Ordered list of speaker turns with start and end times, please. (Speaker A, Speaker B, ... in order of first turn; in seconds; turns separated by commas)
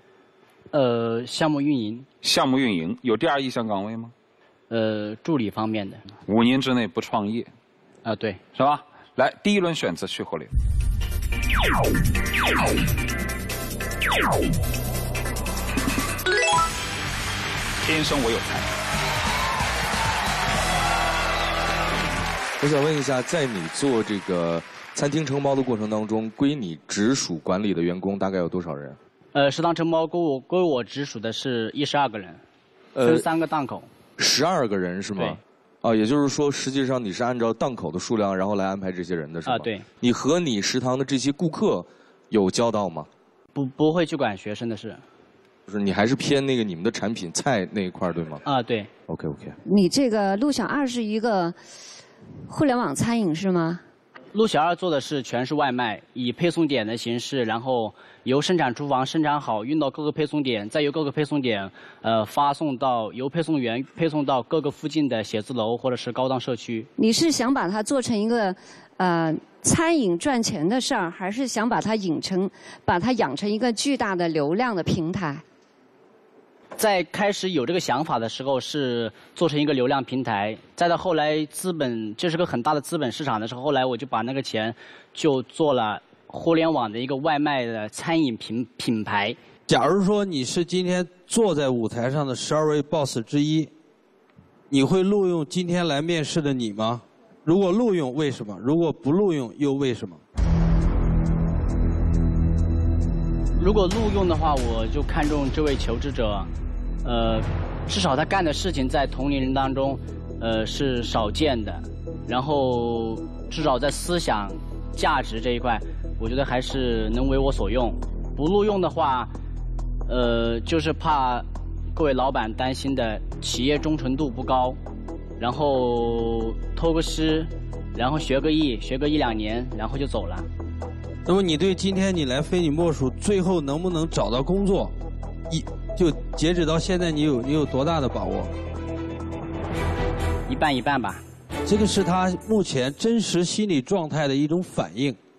Speaker A: 0.7-2.1, Speaker B: 2.2-4.1, Speaker A: 4.7-6.0, Speaker B: 6.3-7.5, Speaker A: 8.0-8.4, Speaker B: 8.5-10.5, Speaker B: 17.8-18.7, Speaker C: 22.6-29.0, Speaker A: 29.3-32.4, Speaker C: 33.0-33.3, Speaker A: 33.0-33.9, Speaker C: 34.2-43.1, Speaker A: 39.5-39.8, Speaker A: 43.5-45.0, Speaker C: 45.7-48.4, Speaker A: 48.4-48.9, Speaker C: 49.1-49.5, Speaker D: 49.6-51.5, Speaker D: 52.5-53.8, Speaker A: 54.3-66.9, Speaker D: 67.0-75.4, Speaker A: 76.8-89.4, Speaker E: 89.7-93.7, Speaker E: 94.7-100.2, Speaker A: 103.5-106.5, Speaker A: 107.0-119.3, Speaker A: 120.1-124.8, Speaker A: 125.4-130.5, Speaker E: 131.2-134.9, Speaker E: 135.5-138.5, Speaker A: 140.5-141.2, Speaker E: 141.7-145.2